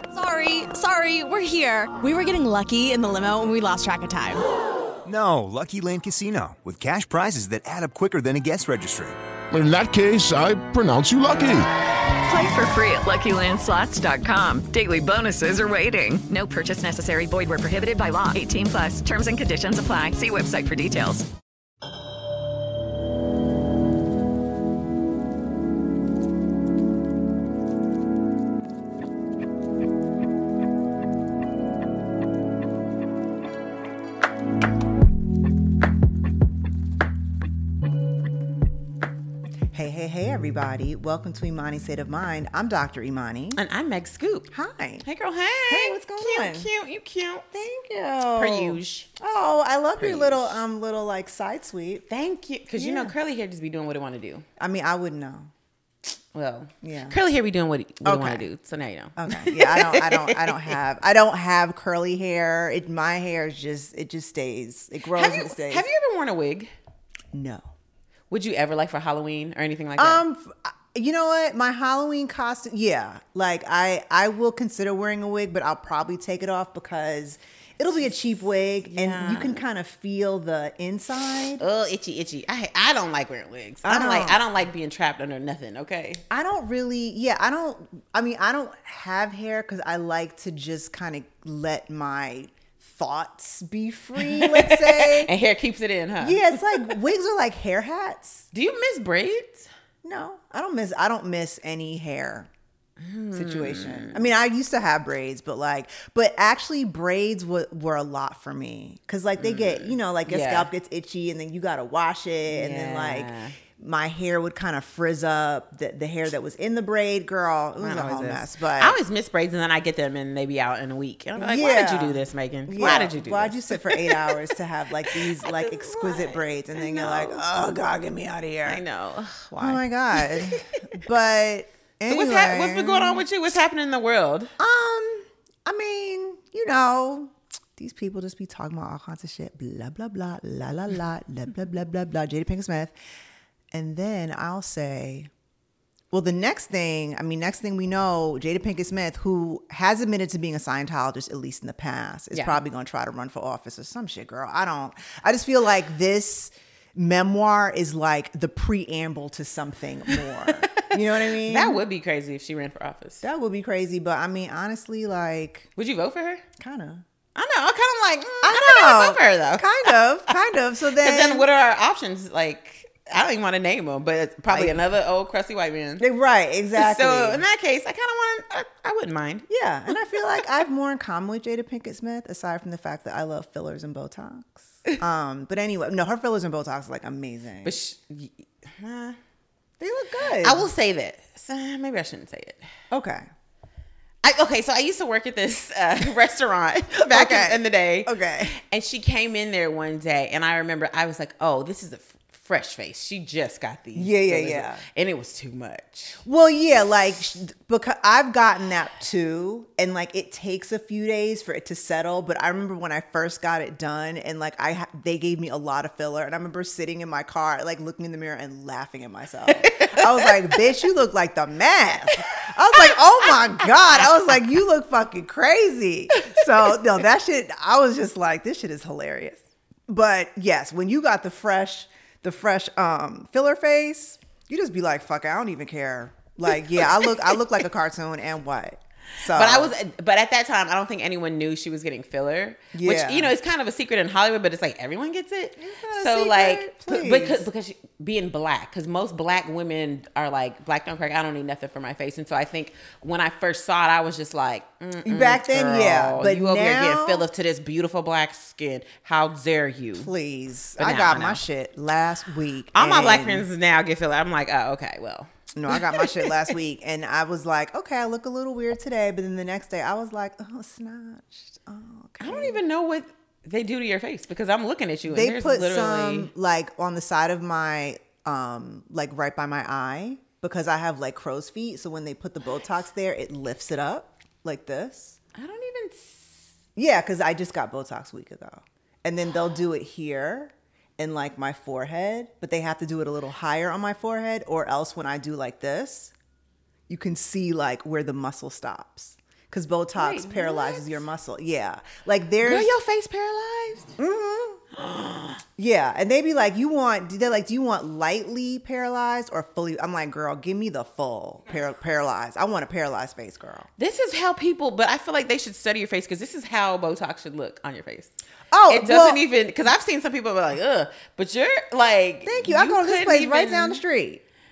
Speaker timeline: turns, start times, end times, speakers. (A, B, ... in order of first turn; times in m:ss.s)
0:00.1-0:04.4 A
0:05.0-0:09.2 B
0:09.5-0:11.7 C
0:12.2-0:21.3 D
0:39.7-0:43.6 E
0:43.5-0:44.5 F
0:44.5-0:45.0 E
0:45.0-0:47.4 F
0:45.7-0:46.7 E
0:47.5-0:52.0 E
0:48.4-0:49.1 F
0:50.0-0:50.6 F
0:52.1-0:54.4 F
0:52.8-0:53.1 E
0:54.6-0:55.5 E
0:56.3-1:00.7 F
0:56.8-0:57.2 E
0:58.0-0:58.4 E
0:59.2-1:05.8 E
1:05.1-1:06.7 F
1:07.3-1:07.7 E
1:08.3-1:10.2 F
1:10.0-1:21.6 E
1:18.9-1:19.6 F
1:21.6-1:26.2 F
1:23.8-1:24.4 E
1:26.3-1:35.3 E
1:34.2-1:36.9 F
1:36.2-1:38.4 E
1:38.5-1:39.7 F
1:40.0-1:42.5 E
1:43.0-1:44.2 F
1:43.3-1:59.0 E
1:49.4-1:50.7 F
1:52.5-1:53.6 F
1:57.8-2:04.5 F
2:01.4-2:08.8 E
2:05.1-2:07.4 F
2:08.6-2:10.7 F
2:09.6-2:13.2 E
2:12.1-2:14.5 F
2:14.6-2:22.9 E
2:23.7-2:25.3 E
2:26.1-2:41.8 E
2:32.3-2:32.6 F
2:40.5-2:43.2 F
2:43.2-2:45.7 E
2:45.8-2:46.4 F
2:46.6-2:47.0 E
2:47.3-2:50.3 F
2:48.4-2:51.5 E
2:51.0-2:56.0 F
2:54.5-2:54.8 E
2:56.0-2:57.4 E
2:56.8-2:59.4 F
2:59.5-3:07.7 E
3:07.6-3:09.2 F
3:09.8-3:10.7 E
3:10.4-3:12.6 F
3:12.9-3:13.3 E
3:14.2-3:26.2 F
3:17.1-3:18.5 E
3:23.9-3:24.8 E
3:26.2-3:59.7 E
3:39.5-3:40.3 F
3:46.2-3:46.4 F
3:59.3-4:20.1 F
4:02.7-4:03.3 E
4:05.6-4:07.4 E
4:15.0-4:17.3 E
4:20.0-4:23.4 E
4:20.8-4:21.4 F
4:22.7-4:26.3 F
4:25.5-4:32.6 E
4:32.2-4:36.3 F
4:35.0-4:45.2 E
4:45.4-4:46.4 F
4:46.8-4:56.1 E
4:56.9-5:02.7 E
5:00.0-5:01.0 F
5:02.4-5:04.0 F
5:04.0-5:04.6 E
5:04.8-5:05.4 F
5:05.6-5:13.7 E
5:13.8-5:18.1 F
5:18.5-5:19.2 E
5:18.7-5:23.8 F
5:22.2-5:24.2 E